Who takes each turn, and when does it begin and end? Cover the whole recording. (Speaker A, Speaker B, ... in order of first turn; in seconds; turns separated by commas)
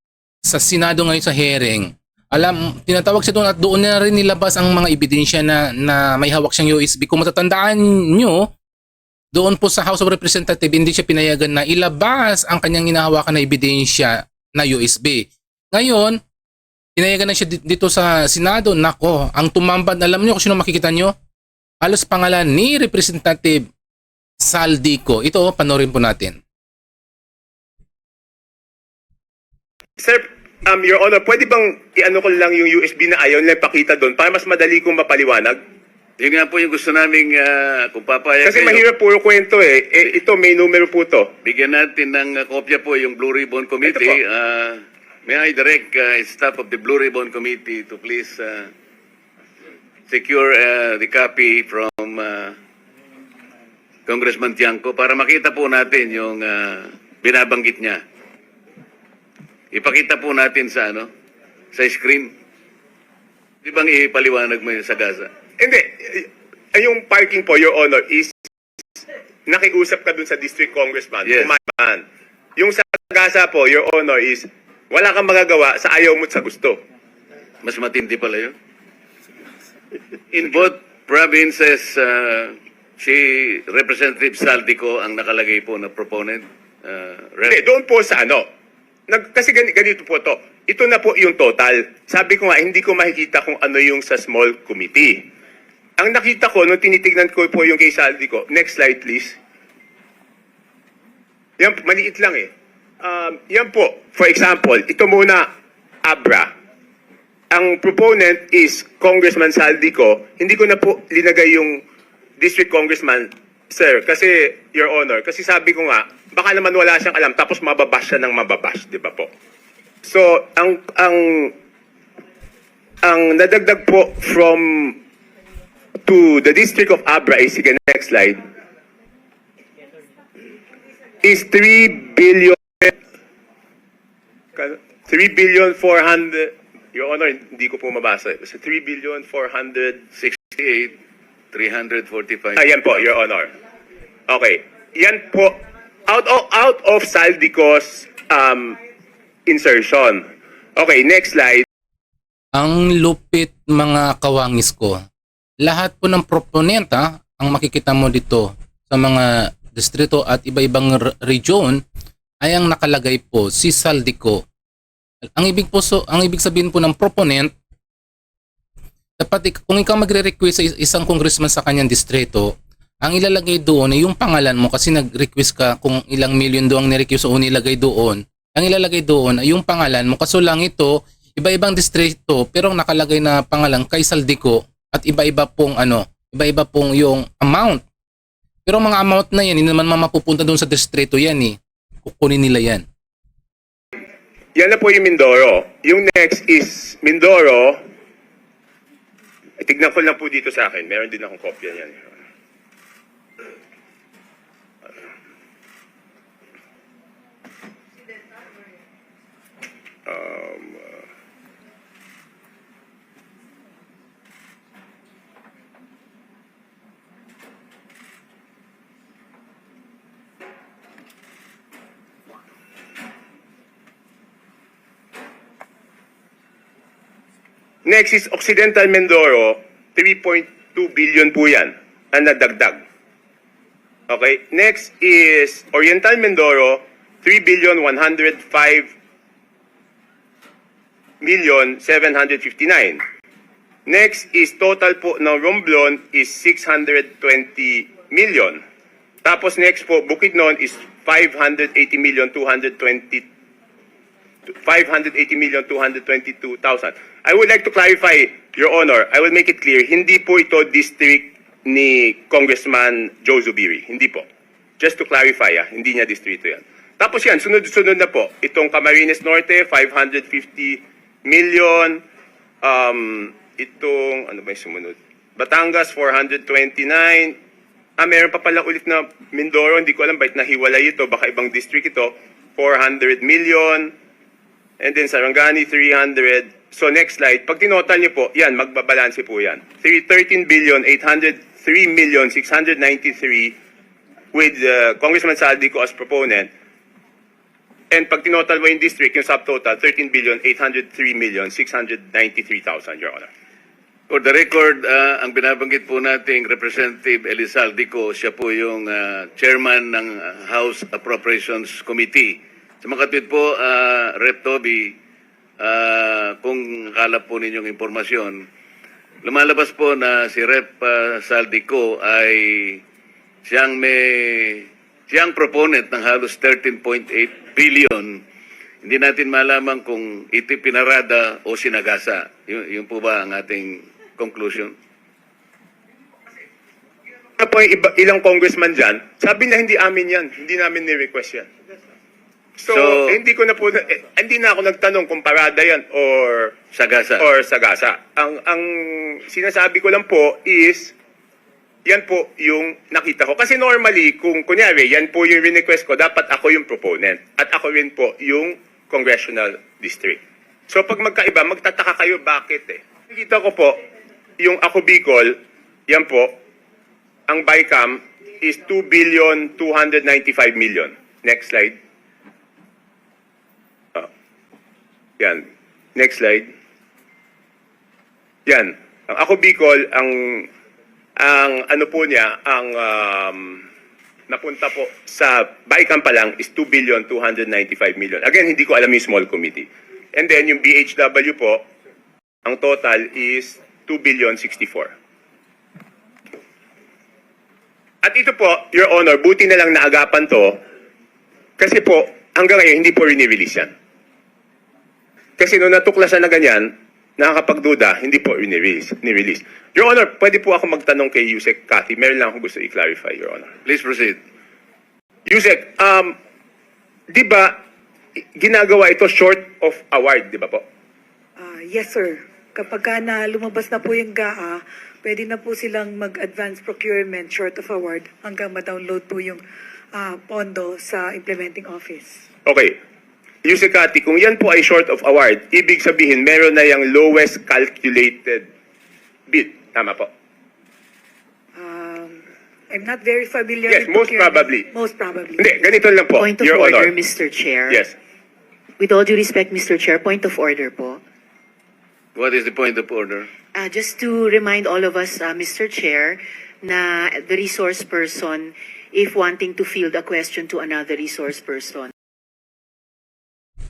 Speaker A: 0.5-8.5, Speaker A: 9.3-16.2, Speaker A: 17.0-21.1, Speaker A: 21.8-23.6, Speaker A: 24.4-26.4, Speaker B: 30.0-35.6, Speaker C: 36.2-38.8, Speaker B: 38.4-41.3, Speaker C: 41.4-48.7, Speaker B: 43.8-44.2, Speaker C: 50.1-52.5, Speaker C: 54.1-58.0, Speaker C: 59.7-61.1, Speaker C: 61.7-62.3, Speaker C: 63.6-65.3, Speaker B: 65.6-68.3, Speaker B: 68.9-72.0, Speaker B: 72.6-76.8, Speaker C: 77.6-78.5, Speaker C: 80.3-87.6, Speaker B: 87.5-88.5, Speaker B: 89.1-95.3, Speaker B: 96.0-99.3, Speaker B: 101.6-102.5, Speaker B: 103.0-105.5, Speaker B: 106.0-106.5, Speaker B: 107.5-111.8, Speaker B: 112.4-119.3, Speaker B: 120.0-121.5, Speaker B: 123.0-125.0, Speaker B: 126.0-128.4, Speaker B: 131.2-132.9, Speaker B: 134.6-140.0, Speaker C: 140.1-140.9, Speaker C: 141.5-142.7, Speaker B: 142.5-143.5, Speaker B: 144.3-148.8, Speaker B: 149.4-150.2, Speaker B: 150.8-151.6, Speaker A: 152.5-155.0, Speaker A: 155.6-161.8, Speaker A: 162.4-164.4, Speaker A: 165.3-167.5, Speaker A: 169.2-187.8, Speaker A: 188.7-192.8, Speaker B: 194.6-197.8, Speaker B: 199.6-202.1, Speaker B: 210.1-211.0, Speaker B: 227.8-232.8, Speaker B: 234.1-238.9, Speaker B: 241.2-243.0, Speaker B: 243.8-248.6, Speaker B: 249.2-253.2, Speaker B: 254.5-264.2, Speaker B: 264.8-272.0, Speaker B: 272.6-277.4, Speaker B: 278.0-283.9, Speaker B: 284.8-293.6, Speaker B: 294.3-296.5, Speaker B: 297.9-303.3, Speaker C: 304.1-314.9, Speaker C: 315.6-318.5, Speaker C: 319.2-322.8, Speaker C: 323.4-328.2, Speaker C: 328.8-334.8, Speaker B: 337.4-341.5, Speaker B: 342.6-346.6, Speaker C: 342.7-343.1, Speaker C: 346.7-347.2, Speaker B: 347.2-350.9, Speaker B: 351.9-363.8, Speaker B: 364.4-365.4, Speaker B: 365.9-366.3, Speaker B: 367.3-371.8, Speaker B: 375.2-376.5, Speaker B: 378.5-380.5, Speaker B: 381.2-383.6, Speaker B: 384.3-391.6, Speaker B: 392.4-394.9, Speaker B: 398.0-400.6, Speaker B: 401.6-403.7, Speaker B: 405.4-413.5, Speaker C: 413.6-414.2, Speaker B: 415.3-416.1, Speaker B: 417.1-417.6, Speaker B: 418.4-420.6, Speaker D: 421.4-429.4, Speaker D: 429.9-432.2, Speaker B: 432.4-432.8, Speaker B: 433.4-438.5, Speaker B: 439.3-440.1, Speaker D: 441.6-445.7, Speaker B: 443.7-444.7, Speaker B: 445.4-446.9, Speaker E: 446.1-447.8, Speaker B: 447.7-447.9, Speaker E: 448.8-451.0, Speaker C: 452.1-453.3, Speaker E: 453.5-461.9